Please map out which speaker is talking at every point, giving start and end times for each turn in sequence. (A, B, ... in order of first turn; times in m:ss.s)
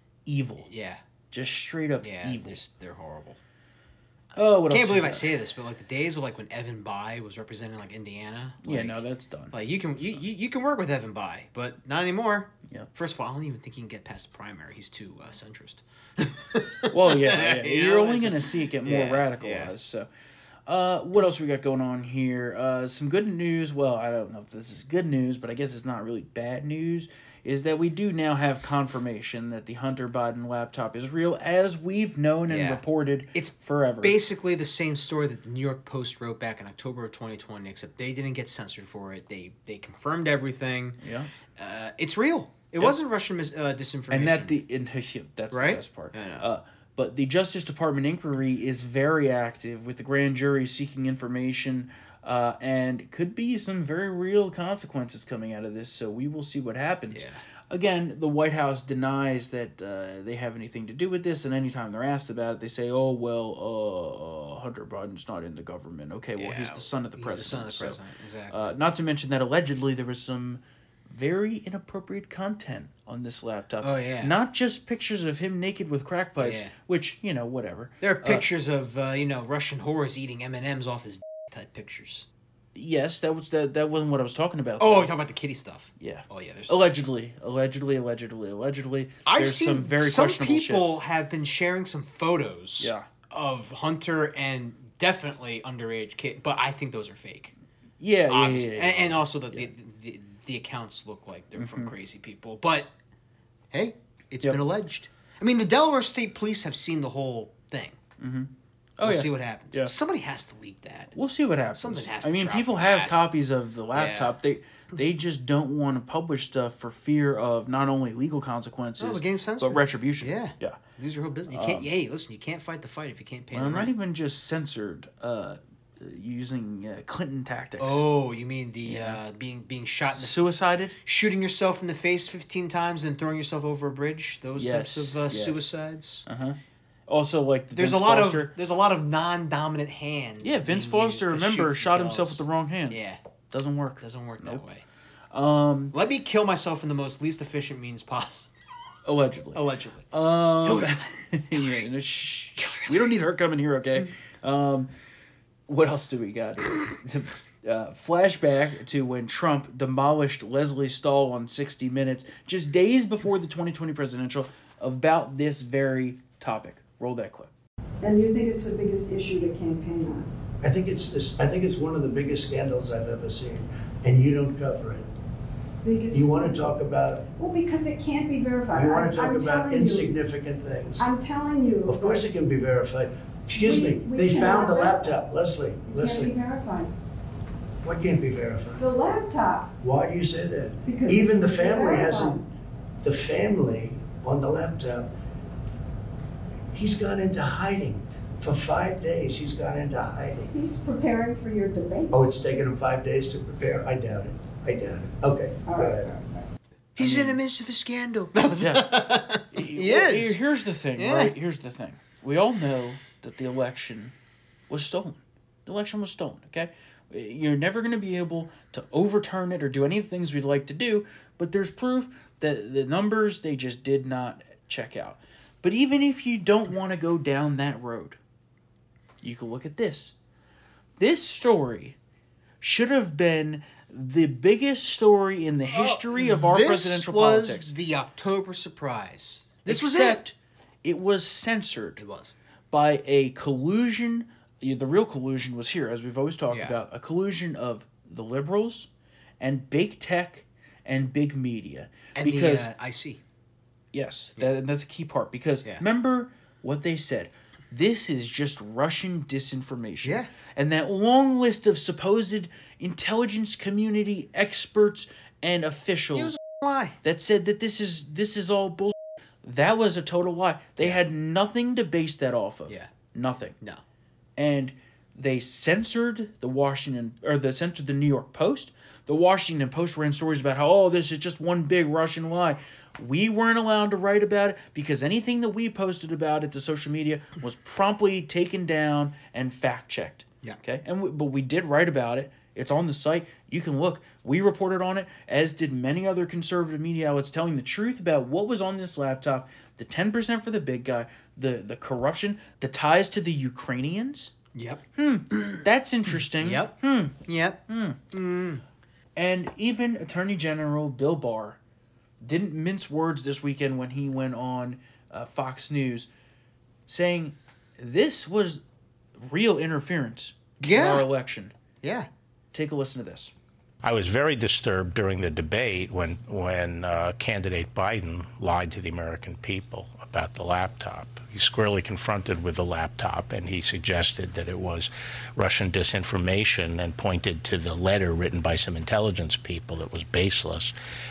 0:00.3-0:00.7 A
0:00.6-0:01.0 B
0:01.3-0:02.6 A
0:02.0-0:03.4 B
0:04.4-0:05.3 A
0:04.7-0:19.8 B
0:08.6-0:09.5 A
0:16.9-0:20.1 A
0:20.7-0:34.2 A
0:32.5-0:41.0 B
0:41.0-0:41.3 A
0:41.6-0:44.6 B
0:44.1-1:08.0 A
0:45.5-0:46.5 B
0:57.1-0:57.4 B
1:06.4-1:08.7 B
1:08.5-1:18.5 A
1:13.8-1:14.4 B
1:16.4-1:16.7 B
1:18.0-1:22.3 B
1:22.8-1:25.1 A
1:24.8-1:26.9 B
1:26.0-1:30.9 A
1:29.3-1:37.5 B
1:32.8-1:33.1 A
1:38.0-1:39.7 A
1:38.3-1:42.9 B
1:41.6-1:41.9 A
1:43.7-1:48.0 B
1:48.2-1:49.9 A
1:49.0-1:51.1 B
1:51.2-2:00.8 A
1:51.7-1:53.2 B
1:53.9-1:54.4 B
1:59.0-2:03.9 B
2:01.5-2:01.9 A
2:03.5-2:08.0 A
2:07.8-2:10.4 B
2:08.8-2:09.2 A
2:10.1-2:11.0 A
2:11.0-2:16.3 B
2:14.6-2:15.7 A
2:16.3-2:18.5 A
2:17.7-2:23.2 B
2:20.4-2:23.0 A
2:23.5-2:24.6 A
2:24.0-2:24.8 B
2:25.3-2:26.0 A
2:25.9-2:28.5 B
2:29.0-2:34.9 A
2:29.5-2:30.1 B
2:30.6-2:31.8 B
2:32.6-2:33.2 B
2:35.7-2:47.5 A
2:48.0-2:50.3 C
2:50.6-2:55.1 D
2:55.8-2:56.6 C
2:56.1-2:57.2 D
2:57.3-3:00.1 C
2:58.7-3:01.1 D
3:01.0-3:02.2 C
3:01.8-3:06.4 D
3:03.6-3:05.2 C
3:05.8-3:06.9 C
3:07.8-3:08.8 D
3:08.8-3:09.7 C
3:09.8-3:12.4 D
3:10.8-3:12.4 C
3:13.0-3:15.1 D
3:16.7-3:20.5 D
3:20.5-3:22.3 C
3:22.1-3:26.1 D
3:25.6-3:26.5 C
3:27.0-3:30.4 B
3:27.0-3:27.4 A
3:28.6-3:34.1 A
3:31.0-3:31.4 B
3:34.7-3:48.2 A
3:49.2-3:50.2 A
3:51.0-3:52.0 A
3:52.6-3:57.7 A
3:55.7-4:00.2 B
3:59.7-4:02.0 A
4:02.0-4:02.3 B
4:02.7-4:08.9 A
4:06.5-4:06.8 B
4:09.4-4:12.7 A
4:12.2-4:13.2 B
4:13.9-4:26.4 A
4:20.0-4:20.3 B
4:26.1-4:27.0 B
4:27.0-4:33.6 A
4:34.4-5:04.3 A
5:04.5-5:05.6 B
5:05.0-5:08.0 A
5:06.4-5:08.6 B
5:09.2-5:11.6 A
5:12.2-5:16.1 A
5:16.9-5:18.6 A
5:19.2-5:21.5 A
5:20.6-5:21.1 B
5:21.8-5:22.1 B
5:22.5-5:23.3 A
5:23.8-5:40.7 E